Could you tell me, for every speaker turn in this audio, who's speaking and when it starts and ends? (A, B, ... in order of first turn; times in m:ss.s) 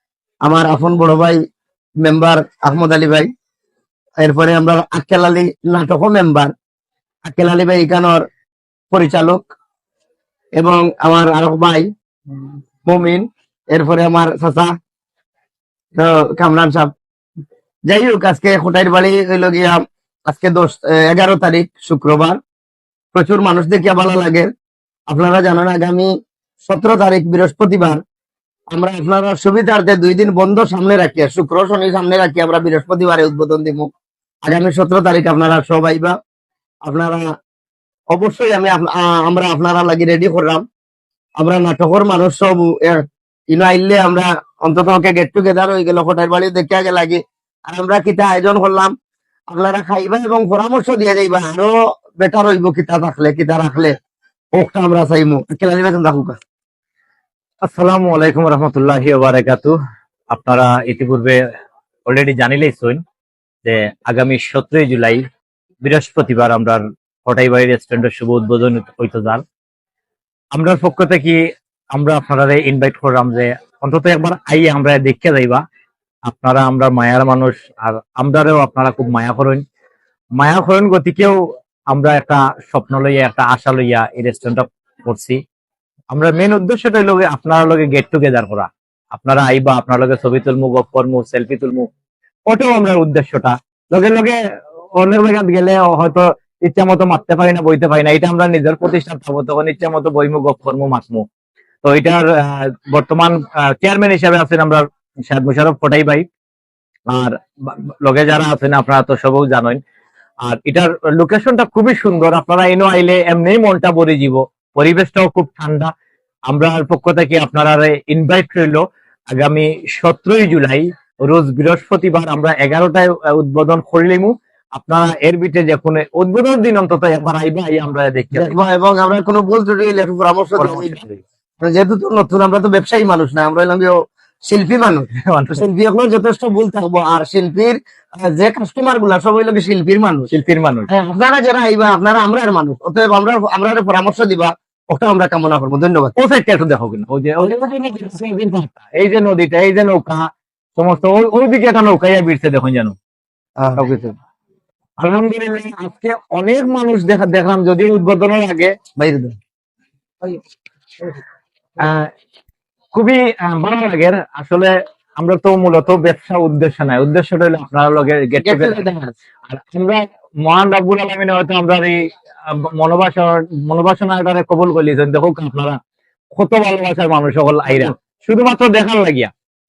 0:00.4-0:01.4 A
0:02.0-0:03.3 A
0:04.2-0:06.5 A
0:07.2-0:08.2 A
0:08.9-0:09.4 A
0:10.6-0:11.9 A
0:12.9-0:14.7 A
0:16.0-0:16.9 A
0:17.9-0:22.4 A
0:23.1-0:24.5 A
0:25.1-0:26.1 A
0:26.7-0:28.0 A
0:28.7-0:33.9 A
0:34.5-0:36.1 A
0:36.8-0:37.2 A
0:38.1-0:40.6 A
0:41.4-0:48.9 A
0:49.5-0:53.9 A
0:54.6-0:56.4 A
0:57.6-0:59.7 B
1:00.3-1:01.4 B
1:02.1-1:03.0 B
1:03.6-1:05.2 B
1:05.8-1:09.4 B
1:10.6-1:11.4 B
1:11.9-1:15.6 B
1:16.3-1:19.6 B
1:20.4-1:21.4 B
1:21.9-1:25.4 B
1:26.1-1:31.9 B
1:32.5-1:34.4 B
1:35.0-1:41.2 B
1:41.8-1:46.2 B
1:47.1-1:49.8 B
1:50.4-1:55.9 B
1:56.5-1:58.8 B
1:59.3-2:08.6 B
2:08.3-2:11.0 A
2:10.6-2:11.2 B
2:11.6-2:14.0 A
2:14.5-2:20.3 A
2:15.3-2:15.6 B
2:20.3-2:20.9 B
2:20.9-2:26.1 A
2:26.2-2:30.2 B
2:30.8-2:32.9 B
2:33.8-2:34.1 B
2:35.0-2:38.7 B
2:39.0-2:39.3 A
2:41.8-2:42.1 B
2:42.9-2:48.9 B
2:48.4-2:49.1 A
2:49.5-2:55.8 B
2:56.4-2:59.3 B